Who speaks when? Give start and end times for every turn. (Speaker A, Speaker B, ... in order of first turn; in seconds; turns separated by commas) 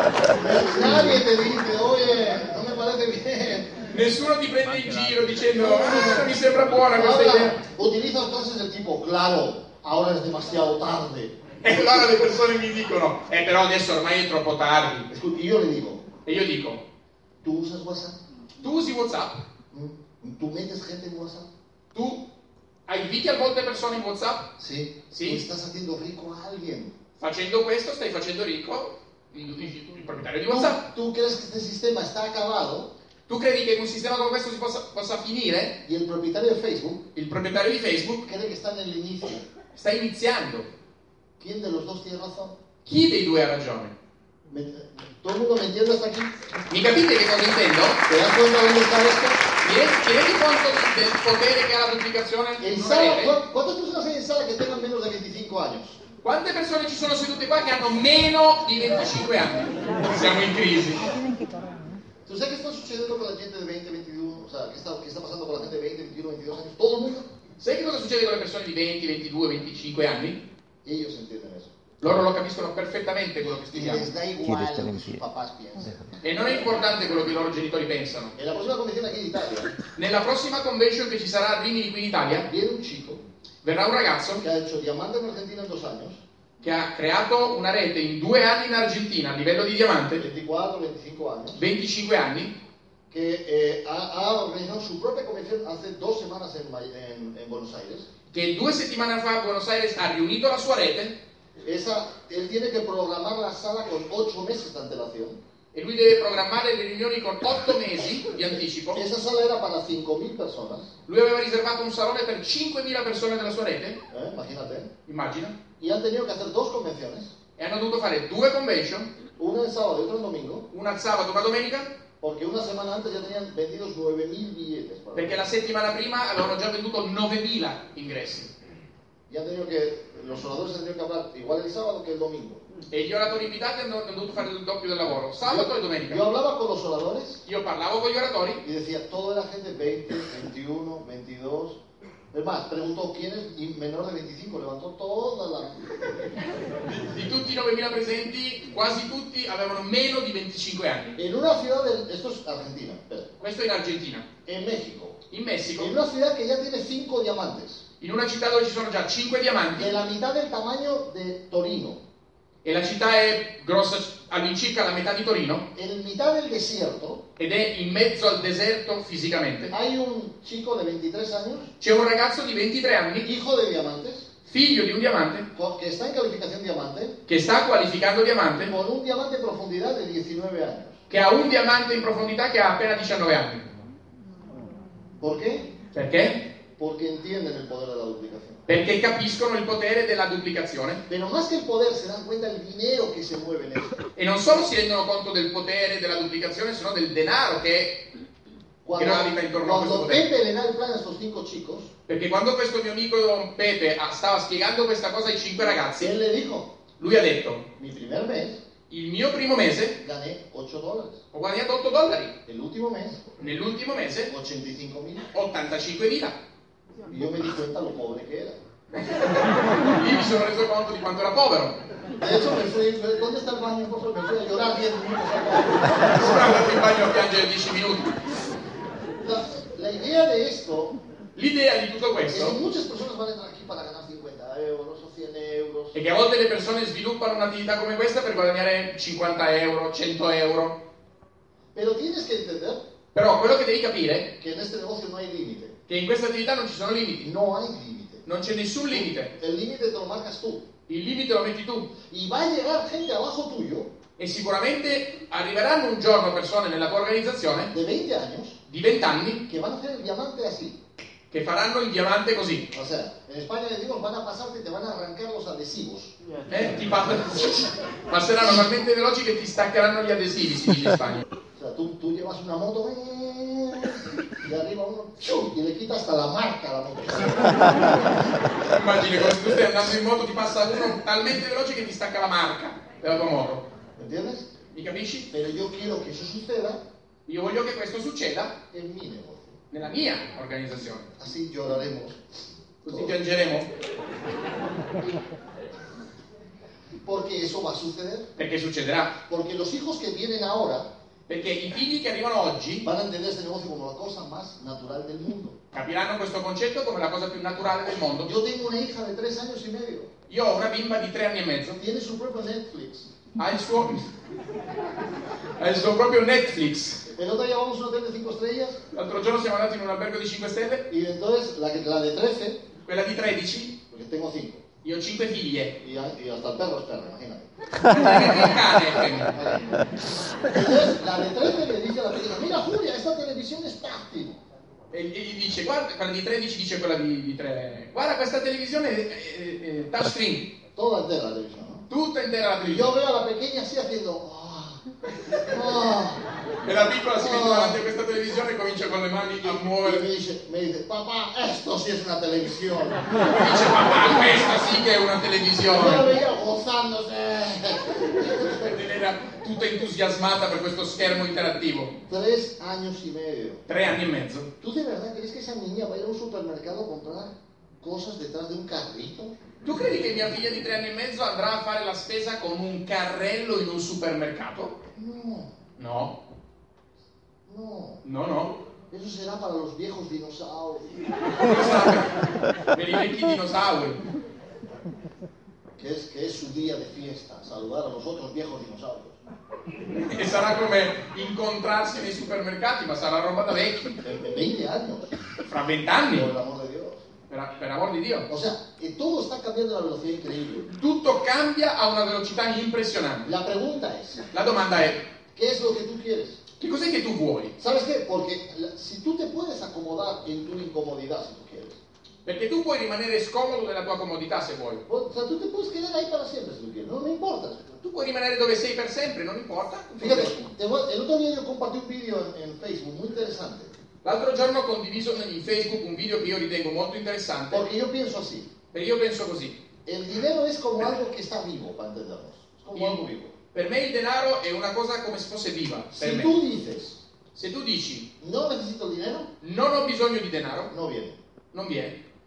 Speaker A: 0.3-3.8, Speaker B: 3.9-7.6, Speaker A: 5.6-6.3, Speaker A: 6.9-11.3, Speaker B: 11.6-15.1, Speaker A: 15.1-16.1, Speaker B: 16.2-16.8, Speaker A: 17.4-18.2, Speaker B: 18.6-19.4, Speaker A: 19.7-21.5, Speaker B: 21.9-22.2, Speaker B: 22.9-24.5, Speaker A: 24.6-27.0, Speaker B: 25.1-25.4, Speaker B: 27.2-30.8, Speaker A: 30.5-32.9, Speaker B: 33.3-35.8, Speaker A: 35.8-37.0, Speaker B: 37.1-38.2, Speaker A: 38.2-39.5, Speaker B: 39.7-40.7, Speaker A: 41.4-42.6, Speaker B: 42.9-43.9, Speaker A: 44.5-46.3, Speaker B: 46.7-48.0, Speaker A: 48.1-49.4, Speaker B: 49.6-53.4, Speaker A: 52.6-56.0, Speaker B: 56.2-61.1, Speaker A: 62.2-67.2, Speaker B: 67.6-70.4, Speaker A: 70.8-71.7, Speaker B: 72.0-74.1, Speaker A: 73.4-76.2, Speaker B: 76.2-78.3, Speaker A: 78.4-79.8, Speaker B: 80.0-82.5, Speaker A: 82.5-83.2, Speaker B: 83.6-84.4, Speaker A: 84.4-86.2, Speaker B: 86.6-90.2, Speaker A: 90.2-91.6, Speaker B: 91.6-92.5, Speaker A: 93.1-98.1, Speaker B: 98.3-101.2, Speaker A: 101.6-105.4, Speaker B: 105.7-109.0, Speaker A: 108.9-110.9, Speaker B: 111.1-114.0, Speaker A: 114.1-114.9, Speaker B: 115.1-115.6, Speaker A: 115.8-117.3, Speaker B: 117.6-119.1, Speaker A: 119.4-120.7, Speaker B: 120.7-121.9, Speaker A: 122.2-125.4, Speaker B: 125.2-128.5, Speaker A: 129.3-132.6, Speaker B: 132.9-136.2, Speaker A: 135.5-137.4, Speaker B: 137.4-138.6, Speaker A: 138.6-141.8, Speaker A: 142.3-146.1, Speaker B: 146.9-151.2, Speaker A: 151.2-153.3, Speaker B: 153.4-154.3, Speaker A: 154.5-155.2, Speaker B: 155.3-155.9, Speaker A: 155.8-157.8, Speaker B: 158.0-159.9, Speaker A: 159.8-162.0, Speaker B: 162.7-165.7, Speaker A: 165.7-167.2, Speaker B: 167.4-169.7, Speaker A: 169.7-171.7, Speaker B: 171.8-173.3, Speaker A: 173.2-174.3, Speaker B: 174.5-175.5, Speaker A: 175.5-177.2, Speaker B: 177.3-178.7, Speaker A: 178.6-181.0, Speaker B: 181.1-183.7, Speaker A: 185.2-185.7, Speaker B: 185.9-186.4, Speaker A: 186.8-188.7, Speaker B: 188.7-191.0, Speaker A: 191.1-194.0, Speaker B: 194.2-198.0, Speaker A: 198.8-201.9, Speaker B: 199.0-200.2, Speaker B: 202.1-206.1, Speaker A: 206.0-206.7, Speaker B: 207.0-207.7, Speaker A: 207.8-208.6, Speaker B: 208.9-210.0, Speaker A: 210.0-211.2, Speaker B: 211.3-212.4, Speaker A: 212.5-213.3, Speaker B: 213.4-214.3, Speaker A: 214.3-215.3, Speaker B: 215.3-216.4, Speaker A: 217.1-218.6, Speaker B: 219.0-221.8, Speaker A: 222.2-226.2, Speaker B: 226.0-228.2, Speaker A: 229.2-231.0, Speaker B: 231.4-232.6, Speaker A: 232.3-235.9, Speaker B: 235.9-240.8, Speaker A: 241.7-242.8, Speaker B: 243.1-244.3, Speaker A: 244.4-245.8, Speaker B: 245.9-247.3, Speaker A: 247.2-248.2, Speaker B: 248.2-249.3, Speaker A: 248.9-250.7, Speaker B: 250.9-251.9, Speaker A: 252.1-253.9, Speaker B: 254.2-257.7, Speaker A: 257.7-258.6, Speaker B: 258.7-259.4, Speaker A: 259.5-260.8, Speaker B: 261.3-262.7, Speaker A: 262.7-266.1, Speaker B: 266.5-271.2, Speaker A: 271.6-278.2, Speaker B: 278.6-283.6, Speaker A: 284.0-284.5, Speaker B: 284.7-285.3, Speaker A: 285.3-286.8, Speaker B: 287.3-288.5, Speaker A: 288.7-289.6, Speaker B: 289.7-291.1, Speaker A: 291.1-292.2, Speaker B: 292.8-293.7, Speaker A: 292.9-293.1, Speaker A: 297.0-298.3, Speaker B: 298.4-299.2, Speaker A: 299.3-300.9, Speaker B: 301.3-302.9, Speaker A: 302.8-305.6, Speaker B: 305.7-308.3, Speaker A: 308.2-310.1, Speaker B: 310.3-311.8, Speaker A: 311.8-313.1, Speaker B: 313.4-314.1, Speaker B: 315.6-317.0, Speaker A: 317.1-318.8, Speaker B: 318.9-320.9, Speaker A: 320.9-322.6, Speaker B: 322.9-323.8, Speaker A: 323.9-324.6, Speaker B: 324.8-325.8, Speaker A: 325.8-327.5, Speaker B: 327.9-329.4, Speaker A: 329.3-334.4, Speaker B: 334.9-340.5, Speaker A: 340.8-341.9, Speaker B: 341.9-342.9, Speaker A: 342.6-344.8, Speaker A: 345.4-346.2, Speaker B: 346.6-350.1, Speaker A: 347.2-347.8, Speaker A: 349.4-353.2, Speaker B: 353.2-356.1, Speaker A: 355.7-358.8, Speaker B: 358.5-361.9, Speaker A: 362.1-363.6, Speaker B: 363.7-364.5, Speaker A: 364.6-369.4, Speaker B: 369.6-374.8, Speaker A: 374.9-375.5, Speaker B: 375.8-376.2, Speaker A: 377.5-378.0, Speaker B: 378.0-378.6, Speaker A: 378.9-381.0, Speaker B: 381.4-382.1, Speaker B: 382.7-384.0, Speaker A: 385.8-389.2, Speaker B: 389.9-394.0, Speaker A: 394.0-395.1, Speaker B: 395.4-396.3, Speaker A: 396.1-397.0, Speaker B: 397.3-398.3, Speaker A: 398.3-400.7, Speaker B: 400.8-403.3, Speaker A: 403.2-404.3, Speaker B: 404.3-405.0, Speaker A: 405.3-406.4, Speaker B: 406.6-407.5, Speaker A: 407.6-411.8, Speaker B: 412.2-414.8, Speaker A: 414.9-417.8, Speaker B: 417.8-420.4, Speaker A: 420.0-423.7, Speaker B: 424.0-427.7, Speaker A: 427.5-428.5, Speaker B: 428.7-429.6, Speaker A: 429.9-433.3, Speaker B: 432.7-436.3, Speaker A: 435.9-437.0, Speaker B: 437.4-438.1, Speaker A: 438.2-439.3, Speaker B: 439.4-440.7, Speaker A: 440.7-441.2, Speaker B: 441.5-442.0